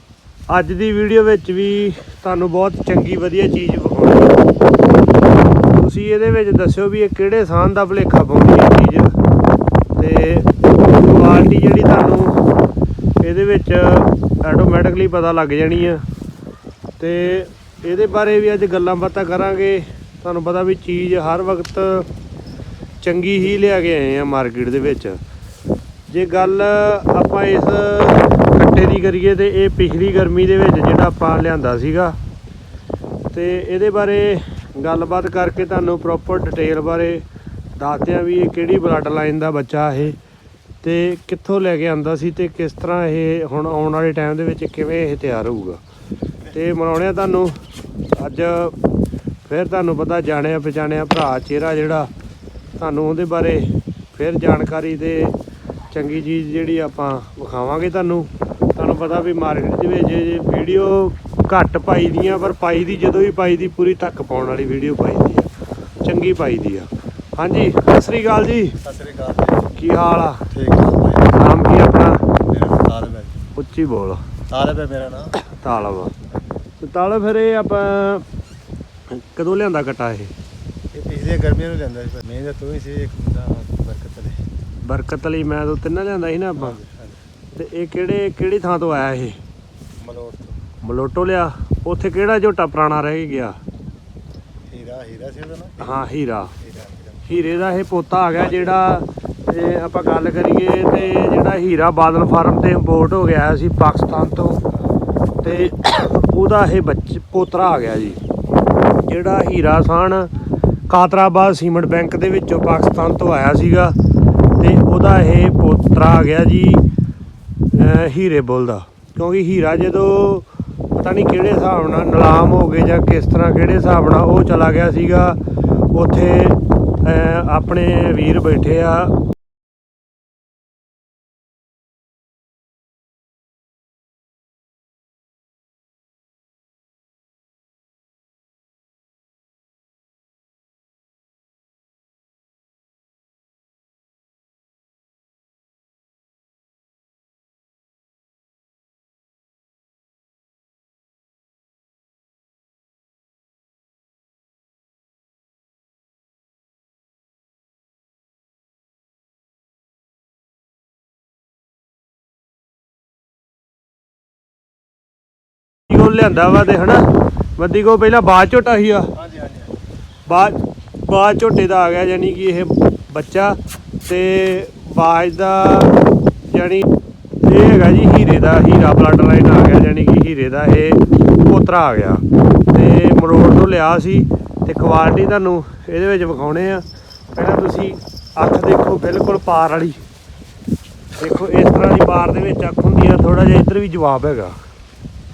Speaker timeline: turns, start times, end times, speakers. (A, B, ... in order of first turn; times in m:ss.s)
0:00.5-0:04.4 A
0:05.7-0:09.2 A
0:10.0-0:12.4 A
0:13.2-0:16.0 A
0:17.0-0:22.1 A
0:23.0-0:25.2 A
0:26.1-0:32.2 A
0:33.3-0:37.2 A
0:37.8-0:40.2 A
0:40.8-0:45.8 A
0:46.5-0:47.6 A
0:48.1-0:48.8 A
0:49.4-0:52.1 A
0:52.8-0:55.4 A
0:55.9-1:05.5 A
1:06.0-1:08.8 A
1:08.8-1:09.7 B
1:09.7-1:10.5 A
1:10.5-1:11.4 B
1:11.3-1:12.2 A
1:12.5-1:13.4 B
1:13.6-1:14.2 A
1:14.5-1:15.4 B
1:15.4-1:16.1 A
1:16.8-1:18.3 A
1:19.1-1:20.3 A
1:20.9-1:24.4 B
1:24.8-1:26.8 A
1:26.6-1:27.2 B
1:27.5-1:29.4 A
1:30.0-1:30.6 B
1:30.8-1:33.6 A
1:34.7-1:36.0 B
1:35.8-1:36.6 A
1:36.6-1:37.2 B
1:37.3-1:44.6 A
1:45.4-1:48.2 A
1:49.0-1:50.3 A
1:50.9-1:54.0 A
1:54.6-1:56.8 A
1:57.7-2:09.2 A
2:45.9-2:49.1 A
2:49.2-2:49.7 B
2:50.3-2:56.9 A
2:57.4-3:10.0 A
3:11.2-3:14.6 A